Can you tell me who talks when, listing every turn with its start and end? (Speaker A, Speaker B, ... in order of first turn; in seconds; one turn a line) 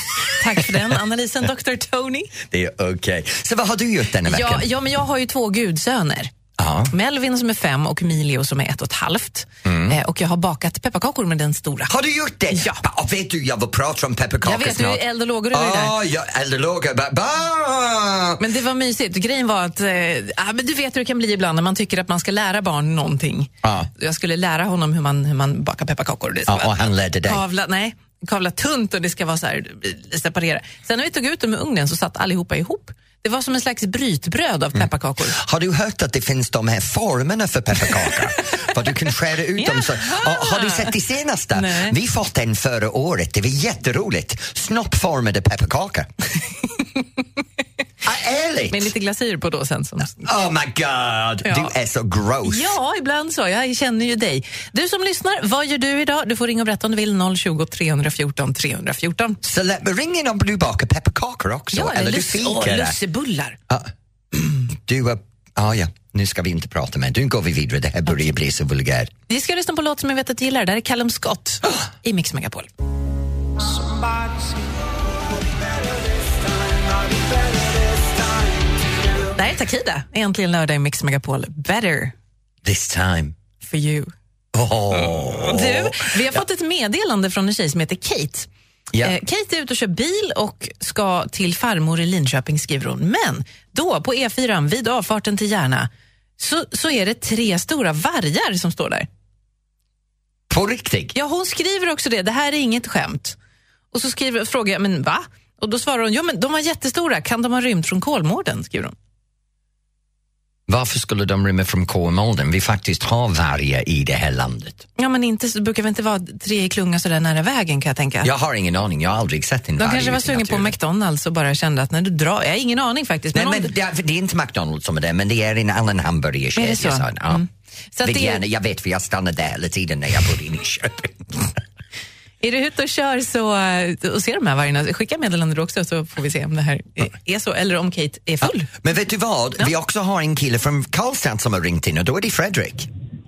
Speaker A: 0.4-2.3
Speaker B: 2.5-4.7
Speaker A: 4.3-6.3
Speaker B: 6.6-6.9
Speaker A: 6.9-11.9
Speaker B: 9.7-10.0
Speaker B: 11.9-18.4
Speaker A: 12.5-12.8
Speaker A: 14.4-16.0
Speaker A: 18.4-26.7
Speaker B: 23.6-23.9
Speaker B: 26.5-27.4
Speaker A: 27.2-35.4
Speaker B: 34.8-46.1
Speaker A: 39.6-40.9
Speaker A: 41.5-42.0
Speaker B: 48.0-48.9
Speaker A: 48.7-50.3
Speaker B: 50.2-52.7
Speaker A: 51.5-51.7
Speaker A: 52.5-59.4
Speaker B: 59.4-63.0
Speaker A: 61.7-63.6
Speaker B: 64.5-69.1
Speaker A: 69.3-72.7
Speaker A: 79.3-82.1
Speaker B: 82.6-83.4
Speaker A: 83.6-84.1
Speaker B: 84.5-86.4
Speaker A: 85.4-88.5
Speaker B: 88.9-89.2
Speaker A: 89.0-99.1
Speaker B: 100.5-101.2
Speaker A: 101.1-103.4
Speaker A: 103.9-109.0
Speaker B: 110.7-114.8
Speaker A: 115.0-118.3
Speaker B: 118.2-120.8
Speaker A: 119.8-123.7
Speaker B: 123.3-127.4
Speaker A: 126.6-128.4
Speaker B: 128.0-131.2
Speaker A: 132.4-138.7
Speaker B: 138.4-142.9